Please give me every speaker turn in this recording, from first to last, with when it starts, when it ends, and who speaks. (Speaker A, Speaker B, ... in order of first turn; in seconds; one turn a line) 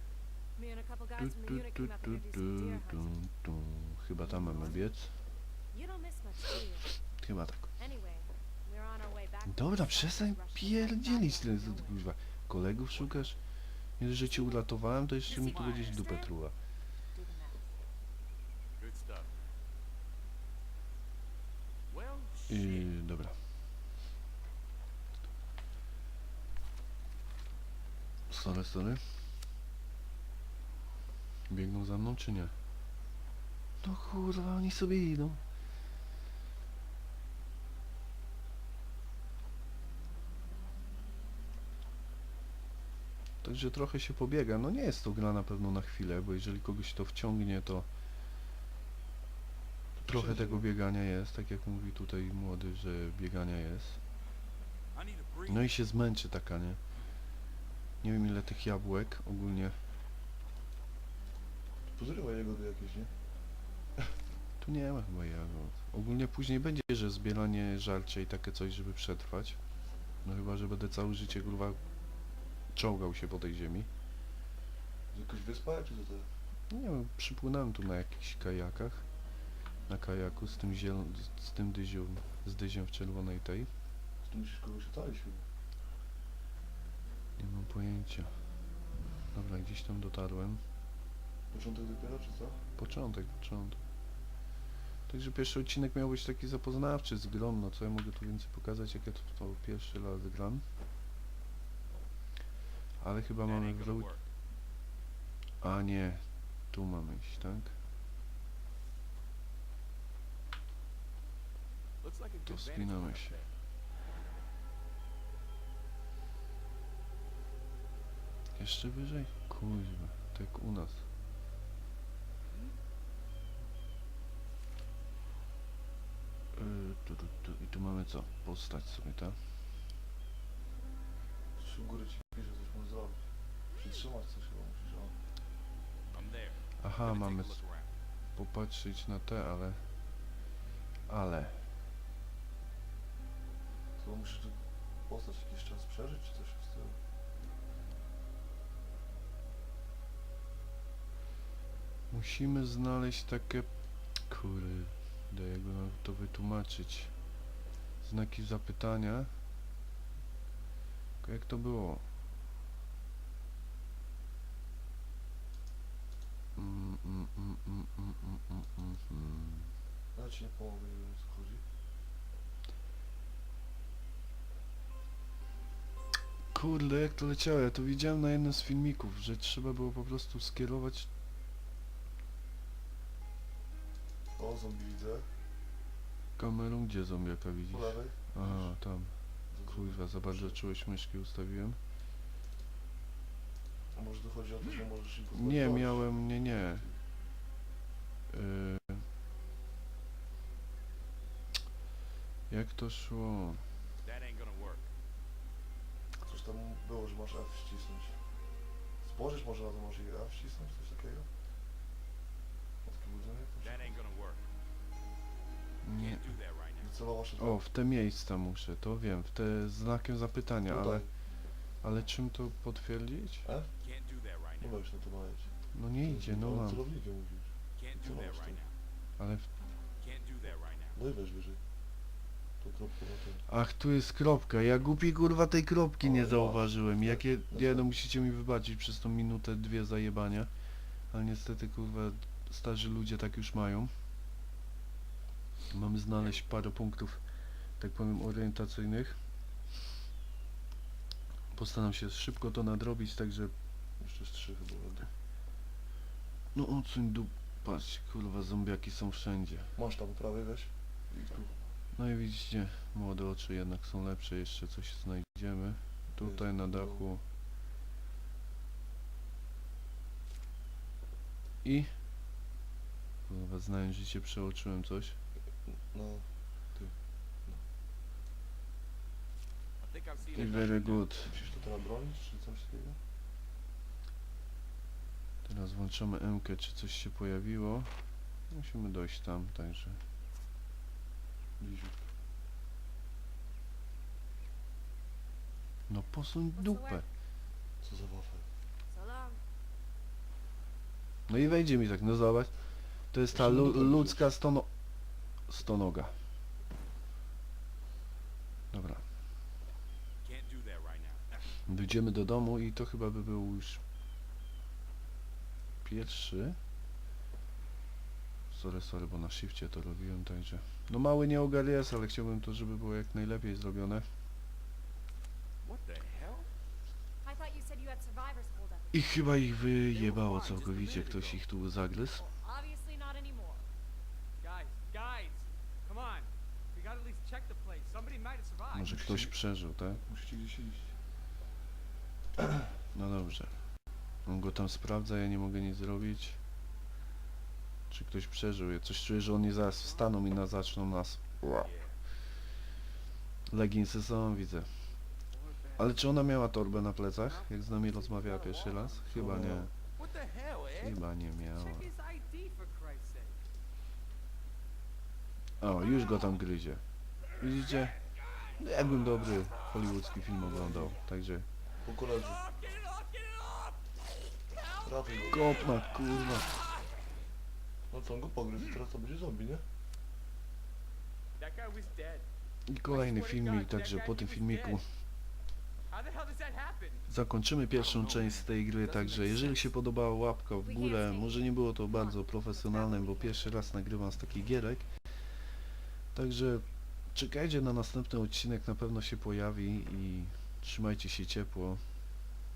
Speaker A: 0.6-3.1
Speaker B: 1.2-5.1
Speaker A: 4.2-4.9
Speaker A: 5.7-7.0
Speaker B: 7.2-7.7
Speaker A: 7.8-12.0
Speaker B: 9.4-13.4
Speaker C: 12.9-13.3
Speaker B: 14.0-16.5
Speaker A: 14.2-14.6
Speaker A: 15.2-16.3
Speaker C: 15.3-16.1
Speaker A: 17.1-17.6
Speaker C: 18.8-19.3
Speaker C: 21.9-22.9
Speaker B: 22.5-23.4
Speaker B: 28.3-29.0
Speaker B: 31.5-32.5
Speaker B: 33.8-35.4
Speaker B: 43.4-47.9
Speaker D: 50.0-50.6
Speaker B: 50.1-54.0
Speaker C: 54.9-55.7
Speaker B: 55.5-56.8
Speaker B: 58.0-59.8
Speaker D: 61.9-63.1
Speaker B: 64.6-69.6
Speaker B: 70.2-71.8
Speaker B: 72.7-73.9
Speaker D: 75.1-76.3
Speaker B: 76.7-79.1
Speaker B: 79.9-83.7
Speaker D: 84.2-85.5
Speaker B: 87.4-88.4
Speaker B: 89.3-90.6
Speaker D: 91.5-92.6
Speaker B: 92.8-93.8
Speaker B: 95.1-100.6
Speaker B: 103.0-104.1
Speaker C: 103.4-104.2
Speaker B: 105.6-107.7
Speaker C: 112.0-113.5
Speaker B: 112.5-113.3
Speaker B: 118.6-121.0
Speaker B: 126.5-129.4
Speaker D: 131.6-135.2
Speaker C: 136.1-137.9
Speaker B: 136.8-137.6
Speaker B: 138.3-139.8
Speaker B: 141.1-141.7
Speaker D: 144.0-147.0
Speaker B: 152.1-153.7
Speaker B: 154.2-157.1
Speaker B: 158.0-159.3
Speaker B: 161.2-162.0
Speaker B: 166.6-169.7
Speaker D: 170.1-171.6
Speaker B: 176.5-181.1
Speaker D: 184.3-185.3
Speaker B: 186.4-191.8
Speaker D: 187.7-188.8
Speaker D: 189.5-190.6
Speaker D: 193.9-197.0
Speaker B: 195.3-196.9
Speaker B: 198.3-199.0
Speaker B: 202.5-203.6
Speaker C: 204.0-204.9
Speaker D: 206.2-208.2
Speaker D: 209.0-211.3
Speaker D: 212.8-214.0
Speaker C: 213.6-214.4
Speaker B: 215.8-216.2
Speaker C: 216.0-217.0
Speaker D: 216.8-217.6
Speaker B: 217.4-221.1
Speaker D: 220.7-221.1
Speaker B: 221.8-223.5
Speaker D: 223.4-223.7
Speaker C: 223.8-224.8
Speaker D: 224.6-228.6
Speaker B: 225.7-226.8
Speaker C: 227.8-228.7
Speaker B: 229.2-229.5
Speaker C: 230.0-231.0
Speaker D: 230.9-231.6
Speaker D: 232.6-233.4
Speaker B: 233.5-240.5
Speaker D: 236.0-237.9
Speaker B: 241.1-243.9
Speaker B: 245.7-247.2
Speaker C: 246.2-246.5
Speaker B: 247.8-249.2
Speaker B: 251.5-253.5
Speaker D: 254.0-255.1
Speaker B: 256.5-259.7
Speaker D: 259.8-261.6
Speaker B: 261.9-267.2
Speaker D: 266.2-267.0
Speaker B: 271.6-271.9
Speaker B: 273.3-275.2
Speaker D: 275.6-277.6
Speaker C: 279.8-281.1
Speaker D: 280.3-283.0
Speaker B: 280.3-281.4
Speaker B: 285.4-287.9
Speaker B: 288.5-290.0
Speaker D: 291.6-292.1
Speaker B: 295.9-297.1
Speaker A: 296.6-297.0
Speaker D: 297.8-298.5
Speaker A: 298.9-299.4
Speaker B: 301.3-304.7
Speaker D: 303.3-304.3
Speaker B: 305.5-306.1
Speaker B: 308.7-309.0
Speaker C: 310.2-311.6
Speaker B: 311.6-313.8
Speaker B: 315.8-316.6
Speaker B: 318.5-324.1
Speaker C: 325.6-326.5
Speaker A: 327.2-329.2
Speaker B: 328.9-332.2
Speaker C: 329.9-331.4
Speaker A: 332.2-333.6
Speaker E: 334.4-338.9
Speaker B: 338.7-340.0
Speaker D: 338.9-339.3
Speaker D: 340.0-340.9
Speaker B: 342.9-343.6
Speaker B: 344.2-346.4
Speaker B: 347.9-351.7
Speaker E: 349.8-350.1
Speaker C: 351.6-352.0
Speaker B: 353.5-354.7
Speaker E: 355.3-356.0
Speaker B: 355.8-359.7
Speaker E: 357.2-359.1
Speaker D: 359.1-359.7
Speaker C: 360.0-360.9
Speaker B: 360.8-361.9
Speaker E: 361.5-363.4
Speaker B: 365.6-366.8
Speaker B: 367.4-368.0
Speaker B: 368.6-371.5
Speaker D: 370.4-371.0
Speaker D: 371.8-372.4
Speaker E: 372.6-373.7
Speaker E: 374.6-374.9
Speaker D: 374.8-375.6
Speaker B: 375.1-376.6
Speaker D: 377.9-379.6
Speaker E: 381.4-382.3
Speaker B: 382.7-384.8
Speaker E: 382.9-384.8
Speaker E: 385.9-387.1
Speaker B: 387.1-395.1
Speaker C: 387.7-388.5
Speaker E: 388.8-389.7
Speaker A: 390.6-393.7
Speaker B: 396.1-401.8